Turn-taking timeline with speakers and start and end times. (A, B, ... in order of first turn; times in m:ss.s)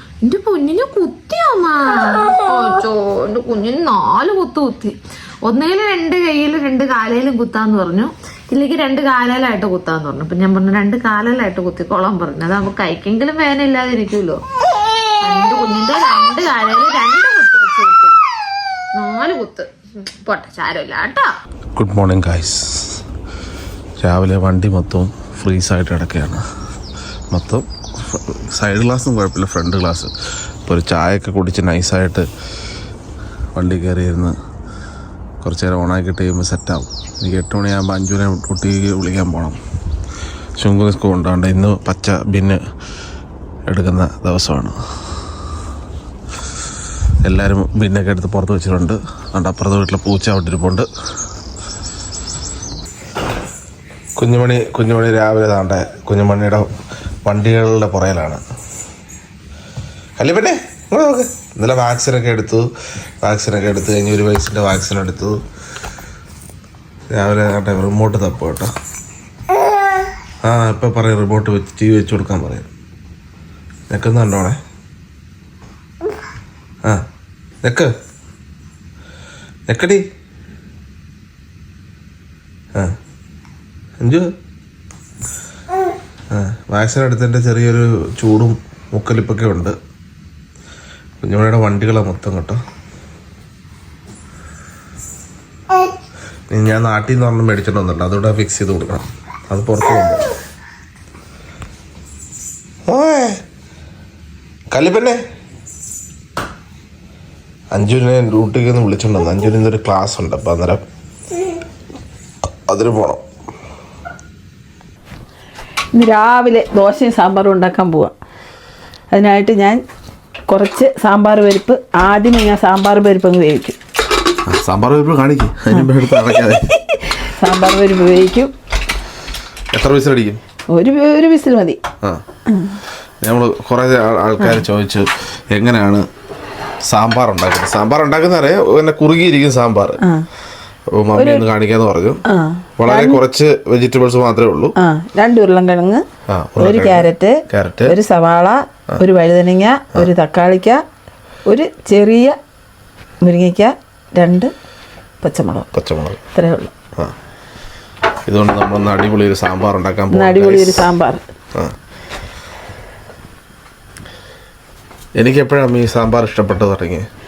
0:00.2-0:05.0 A
0:05.5-0:14.4 A
0:15.2-0:18.2 A
0:19.0-0:21.3 A
0:21.8-0:23.0 B
0:24.0-0:26.4 B
0:27.3-0:30.1 B
0:30.7-0:32.3 B
0:33.6-0:34.3 B
0:35.4-0:39.6 B
0:40.6-0:42.6 B
0:43.7-0:44.8 B
0:47.2-0:50.9 B
0:54.2-0:56.7 B
0:57.3-0:58.4 B
1:00.2-1:02.7 B
1:03.2-1:05.4 B
1:07.1-1:08.7 B
1:10.4-1:12.7 B
1:13.9-1:14.6 B
1:17.6-1:17.9 B
1:19.7-1:20.0 B
1:24.0-1:24.3 B
1:26.3-1:29.8 B
1:31.2-1:32.6 B
1:36.5-1:40.3 B
1:42.9-1:43.4 B
1:44.7-1:45.2 B
1:47.7-1:50.8 B
1:52.7-1:53.2 B
1:55.9-1:58.1 C
1:59.1-1:59.8 C
2:00.5-2:03.8 C
2:04.5-2:06.7 B
2:06.7-2:08.5 C
2:09.7-2:10.4 B
2:10.7-2:11.8 C
2:12.5-2:12.8 C
2:13.2-2:16.1 B
2:16.9-2:20.0 B
2:20.9-2:22.2 B
2:21.2-2:21.5 C
2:22.3-2:23.2 C
2:22.8-2:24.7 B
2:24.8-2:26.0 C
2:26.3-2:28.0 B
2:26.6-2:30.8 C
2:31.5-2:32.4 C
2:33.2-2:34.5 C
2:35.2-2:35.7 C
2:35.7-2:36.2 B
2:36.3-2:36.7 C
2:38.3-2:40.9 B
2:40.1-2:41.2 C
2:45.2-2:47.1 B